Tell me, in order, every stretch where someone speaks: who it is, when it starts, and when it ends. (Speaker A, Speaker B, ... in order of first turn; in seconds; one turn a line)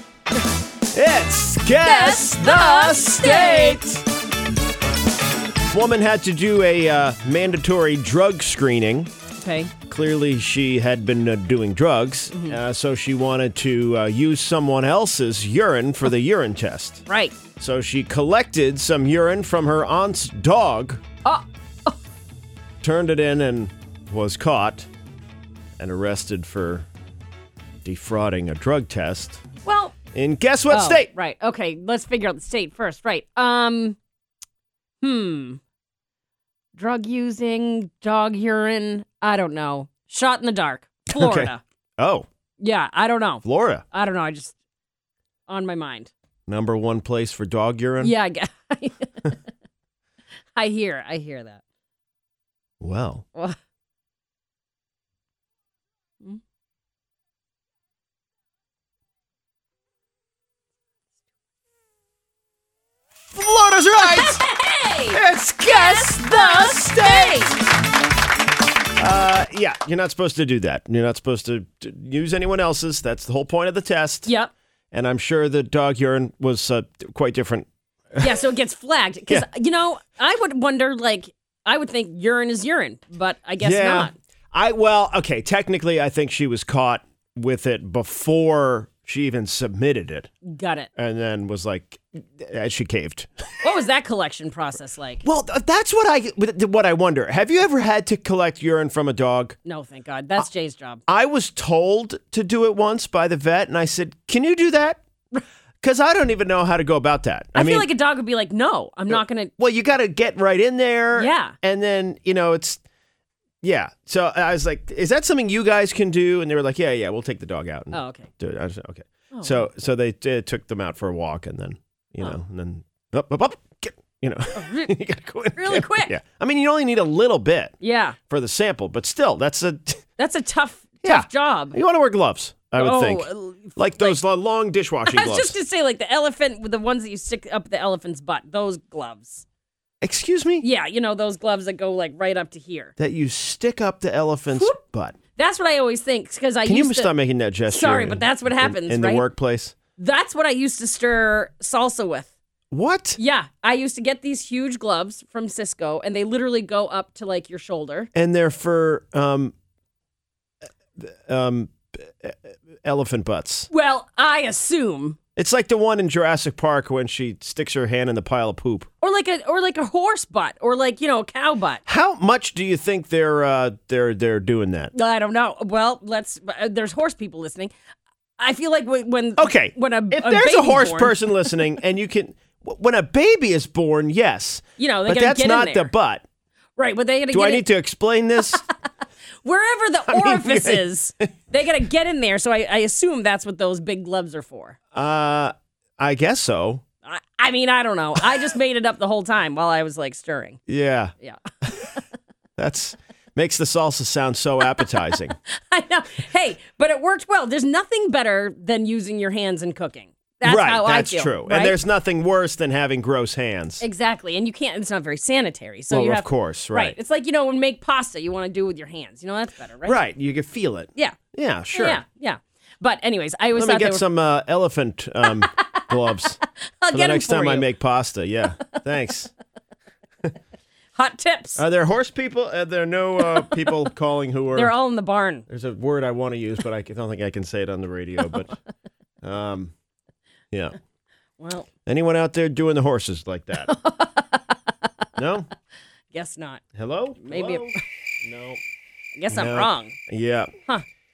Speaker A: 0.9-4.0
Speaker B: 1.8-4.0
Speaker A: 5.7-9.1
Speaker B: 9.4-9.7
Speaker A: 9.9-17.0
Speaker B: 12.3-12.6
Speaker B: 17.1-17.4
Speaker A: 17.6-21.0
Speaker B: 21.2-22.0
Speaker A: 22.8-24.9
Speaker A: 25.8-26.9
Speaker A: 27.9-29.4
Speaker B: 29.6-29.9
Speaker A: 30.1-31.1
Speaker B: 30.7-34.0
Speaker B: 35.0-35.6
Speaker B: 36.8-41.6
Speaker A: 41.1-42.3
Speaker B: 42.6-44.5
Speaker A: 43.4-43.8
Speaker B: 45.5-46.1
Speaker A: 46.5-48.1
Speaker B: 48.0-49.3
Speaker B: 50.6-51.6
Speaker A: 52.8-53.2
Speaker A: 63.3-64.4
Speaker B: 64.0-67.6
Speaker A: 65.1-67.6
Speaker A: 69.0-74.3
Speaker B: 74.3-74.5
Speaker A: 74.9-78.4
Speaker B: 78.2-84.1
Speaker A: 83.6-90.3
Speaker B: 90.4-90.9
Speaker A: 91.0-93.5
Speaker B: 93.6-95.2
Speaker A: 95.2-99.6
Speaker B: 99.7-101.0
Speaker A: 101.1-105.0
Speaker A: 105.8-107.9
Speaker B: 107.5-109.5
Speaker A: 109.1-112.8
Speaker B: 111.2-111.6
Speaker A: 113.6-127.7
Speaker B: 117.9-118.3
Speaker B: 119.3-119.7
Speaker B: 124.6-124.9
Speaker B: 125.6-126.1
Speaker B: 127.8-128.2
Speaker A: 128.3-130.0
Speaker B: 130.2-131.8
Speaker A: 131.0-135.6
Speaker B: 132.8-134.2
Speaker B: 135.1-139.4
Speaker A: 140.0-140.7
Speaker B: 140.6-142.9
Speaker A: 143.0-145.2
Speaker B: 144.5-144.8
Speaker B: 145.4-147.1
Speaker A: 146.7-149.8
Speaker B: 147.7-149.2
Speaker B: 150.0-152.3
Speaker A: 152.7-153.2
Speaker B: 153.2-158.1
Speaker A: 158.1-159.5
Speaker A: 161.0-163.7
Speaker B: 163.7-165.2
Speaker A: 165.4-168.9
Speaker B: 169.0-171.8
Speaker A: 171.9-174.9
Speaker B: 174.9-177.7
Speaker B: 178.4-181.6
Speaker A: 179.4-186.2
Speaker B: 184.8-185.9
Speaker B: 186.8-187.7
Speaker A: 187.3-188.6
Speaker B: 188.4-188.7
Speaker B: 189.4-194.8
Speaker A: 190.1-190.9
Speaker A: 194.9-196.8
Speaker B: 197.0-200.6
Speaker A: 200.7-201.1
Speaker A: 202.6-205.3
Speaker B: 204.7-211.8
Speaker A: 210.4-213.8
Speaker B: 213.8-220.0
Speaker A: 215.9-217.0
Speaker A: 219.8-222.0
Speaker B: 221.7-224.1
Speaker A: 223.6-226.4
Speaker B: 225.2-226.2
Speaker B: 226.8-227.7
Speaker A: 226.9-229.3
Speaker B: 231.0-231.6
Speaker A: 231.6-234.7
Speaker B: 233.2-233.7
Speaker B: 234.5-235.4
Speaker A: 235.5-238.6
Speaker A: 239.2-239.7
Speaker B: 241.4-241.7
Speaker A: 241.9-243.7
Speaker B: 243.6-244.7
Speaker A: 245.2-245.5
Speaker B: 246.1-246.6
Speaker A: 246.7-248.6
Speaker B: 247.2-247.8
Speaker B: 249.2-250.0
Speaker A: 249.3-250.5